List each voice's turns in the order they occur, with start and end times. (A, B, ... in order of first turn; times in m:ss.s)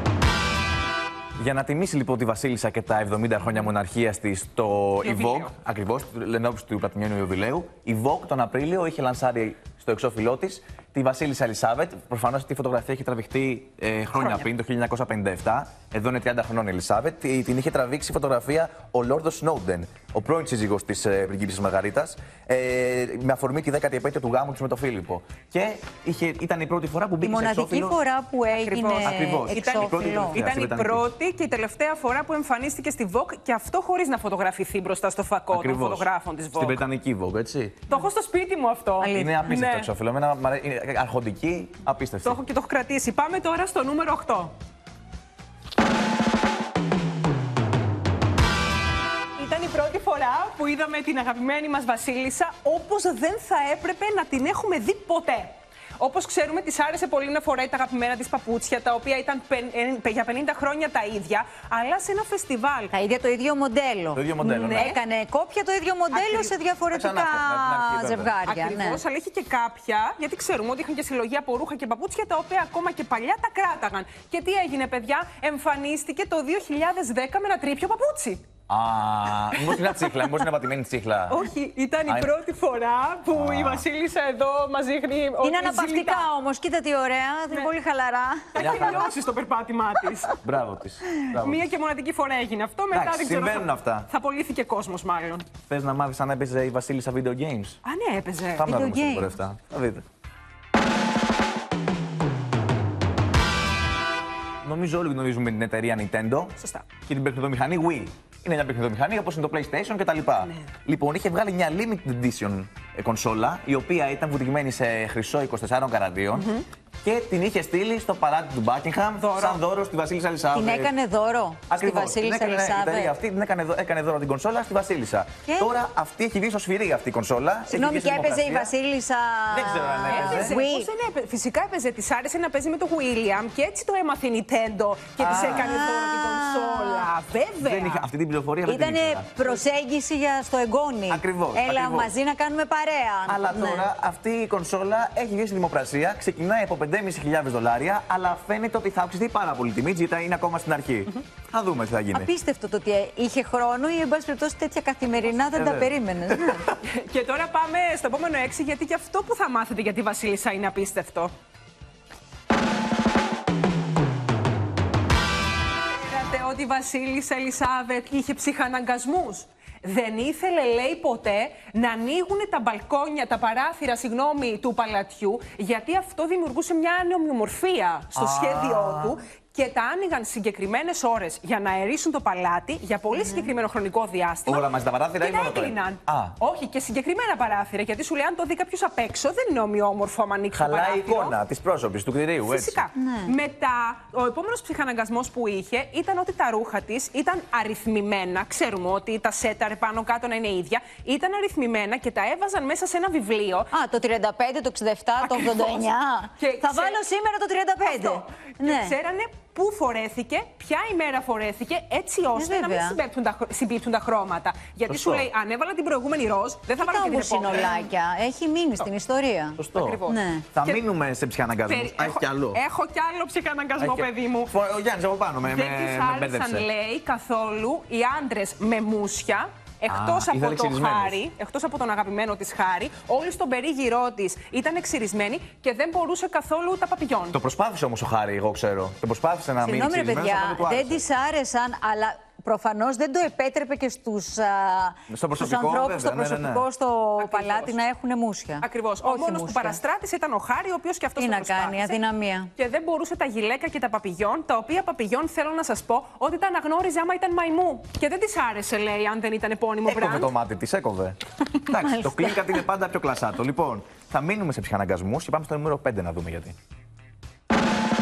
0:01.4-0:28.0 A
0:05.0-0:05.5 B
0:14.1-0:14.4 B
0:27.2-0:30.4 C
0:28.5-0:36.8 B
0:29.0-0:31.0 A
0:35.5-0:37.8 A
0:37.9-0:39.9 B
0:39.0-0:39.4 C
0:39.1-0:42.4 A
0:42.2-0:44.5 B
0:49.4-1:02.9 B
1:02.9-1:04.2 C
1:04.1-1:04.9 A
1:04.4-1:05.0 B
1:04.7-1:09.0 C
1:06.1-1:06.5 B
1:06.9-1:08.3 A
1:08.4-1:18.4 B
1:18.7-1:21.4 A
1:21.3-1:26.3 B
1:22.0-1:22.3 A
1:23.3-1:23.8 A
1:25.4-1:29.0 C
1:28.5-1:30.4 B
1:28.6-1:29.1 A
1:30.4-1:31.6 A
1:31.4-1:35.4 B
1:32.9-1:34.1 A
1:35.7-1:37.8 A
1:37.8-1:38.7 B
1:38.6-1:40.0 A
1:38.6-1:39.3 C
1:44.6-1:56.5 A
1:46.6-1:46.8 B
1:50.4-1:50.7 B
1:56.3-1:56.6 B
1:57.0-2:00.9 A
1:59.2-1:59.6 B
2:00.5-2:03.1 C
2:01.7-2:08.7 A
2:05.5-2:05.7 C
2:07.7-2:10.9 C
2:09.5-2:10.6 A
2:10.1-2:18.1 B
2:15.2-2:15.7 A
2:15.3-2:17.1 C
2:17.6-2:19.3 A
2:18.6-2:23.9 C
2:21.1-2:22.1 A
2:23.2-2:32.3 A
2:32.1-2:36.7 C
2:35.5-2:36.7 A
2:36.8-2:41.3 B
2:45.9-3:04.7 B
2:58.1-2:59.2 A
3:03.2-3:03.5 C
3:04.4-3:06.4 A
3:05.2-3:11.4 B
3:10.5-3:12.8 A
3:12.4-3:23.7 B
3:13.0-3:13.3 C
3:23.7-3:28.9 C
3:25.2-3:27.0 B
3:27.8-3:37.9 B
3:32.4-3:33.0 C
3:34.9-3:35.3 A
3:36.8-3:40.5 C
3:39.6-3:40.0 A
3:39.7-3:40.8 B
3:40.5-3:42.6 A
3:41.6-3:44.5 B
3:43.8-3:46.6 A
3:45.4-3:57.4 B
3:49.9-3:51.2 A
3:57.3-4:01.0 A
3:59.6-4:09.8 C
4:05.1-4:06.6 A
4:07.2-4:07.8 B
4:08.6-4:12.0 B
4:11.2-4:12.5 C
4:12.6-4:20.3 B
4:19.8-4:26.5 A
4:21.6-4:22.6 C